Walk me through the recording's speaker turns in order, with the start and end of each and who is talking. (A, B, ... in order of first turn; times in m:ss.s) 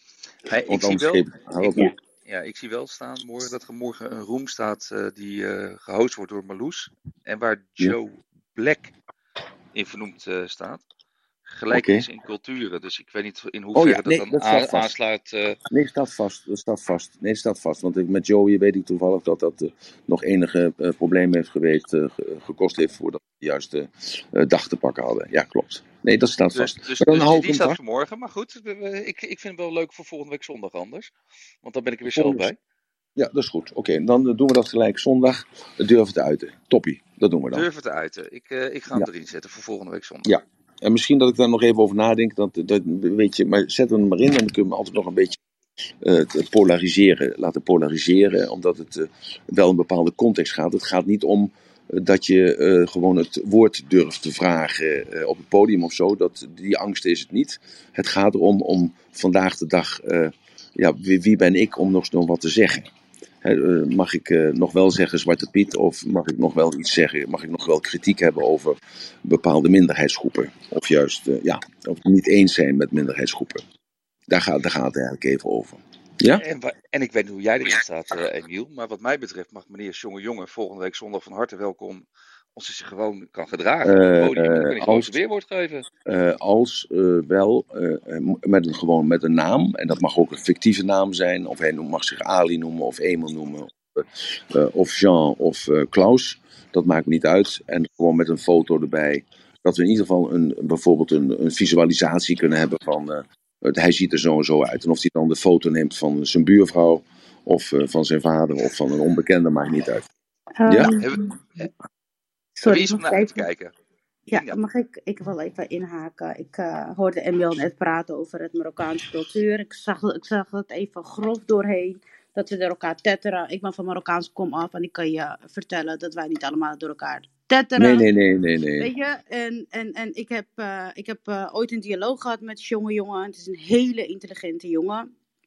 0:00.5-0:08.9 A
0:00.7-0:01.9 B
0:09.7-0:10.8 A
0:11.5-0:15.6 A
0:11.7-0:12.1 B
0:13.7-0:14.9 B
0:15.7-0:27.8 B
0:26.5-0:32.6 A
0:32.1-0:32.5 B
0:33.2-0:37.7 B
0:37.5-0:40.4 A
0:40.3-0:45.4 B
0:46.0-1:02.9 B
1:03.4-1:13.6 B
1:14.3-1:16.4 B
1:16.3-1:25.9 A
1:23.8-1:25.1 B
1:26.1-1:50.1 B
1:50.6-1:51.6 C
1:50.7-1:51.0 B
1:50.7-1:51.7 A
1:52.6-1:53.4 C
1:52.6-1:53.7 A
1:54.3-1:54.6 A
1:54.3-2:08.1 C
2:07.8-2:08.9 B
2:08.8-2:15.1 C